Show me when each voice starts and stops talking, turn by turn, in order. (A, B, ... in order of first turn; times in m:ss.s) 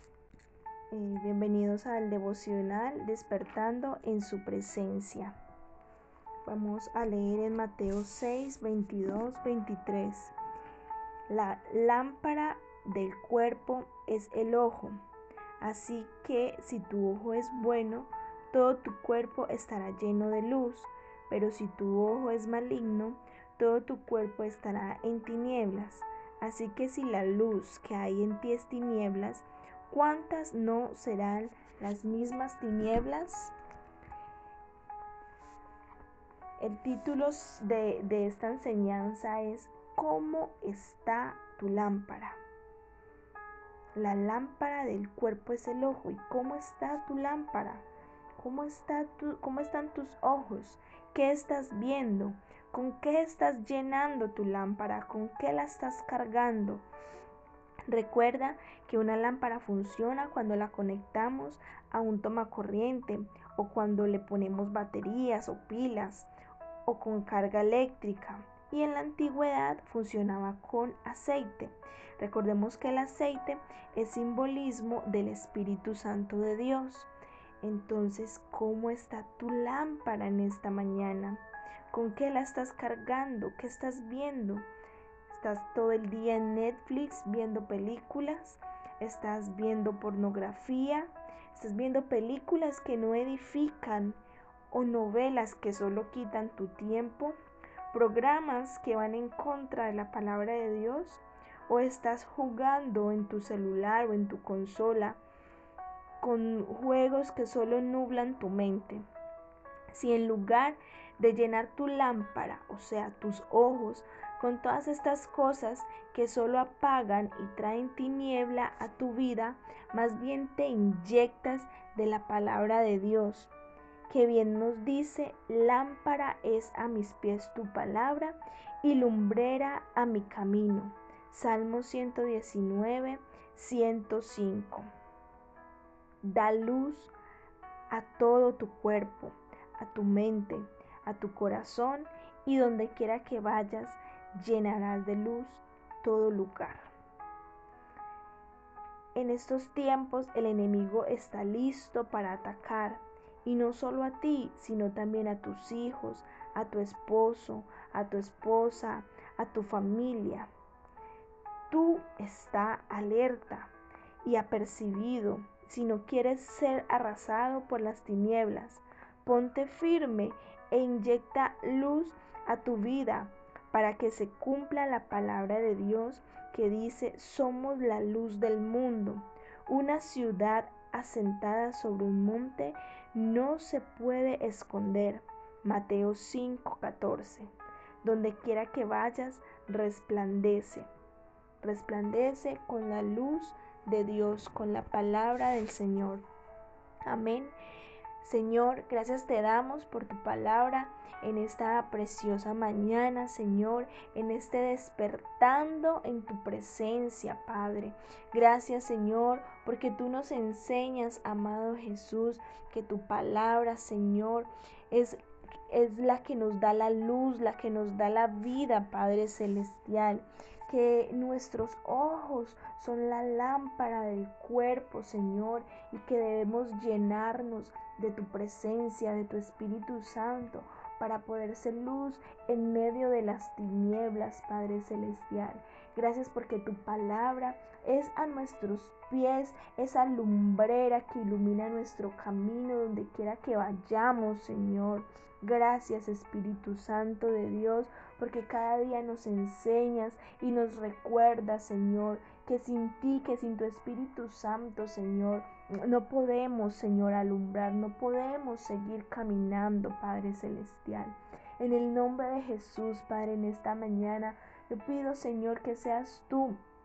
0:00.9-0:05.4 A
0:06.4-0:10.3 A
0:11.3-0:15.0 A
0:15.6-0:33.6 A
0:36.6-0:42.4 A
0:44.0-0:47.9 A
0:48.4-0:56.8 A
0:57.9-1:06.3 A
1:06.9-1:17.1 A
1:17.6-1:24.7 A
1:25.3-1:37.4 A
1:37.9-1:45.2 A
1:46.2-1:49.0 A
1:49.9-2:03.5 A
2:04.1-2:14.9 A
2:16.2-2:17.1 A
2:17.9-2:26.9 A
2:29.2-2:40.5 A
2:41.7-3:07.5 A
3:08.0-3:10.9 A
3:11.6-3:16.3 A
3:17.0-3:17.6 A
3:18.2-3:35.2 A
3:35.7-4:26.6 A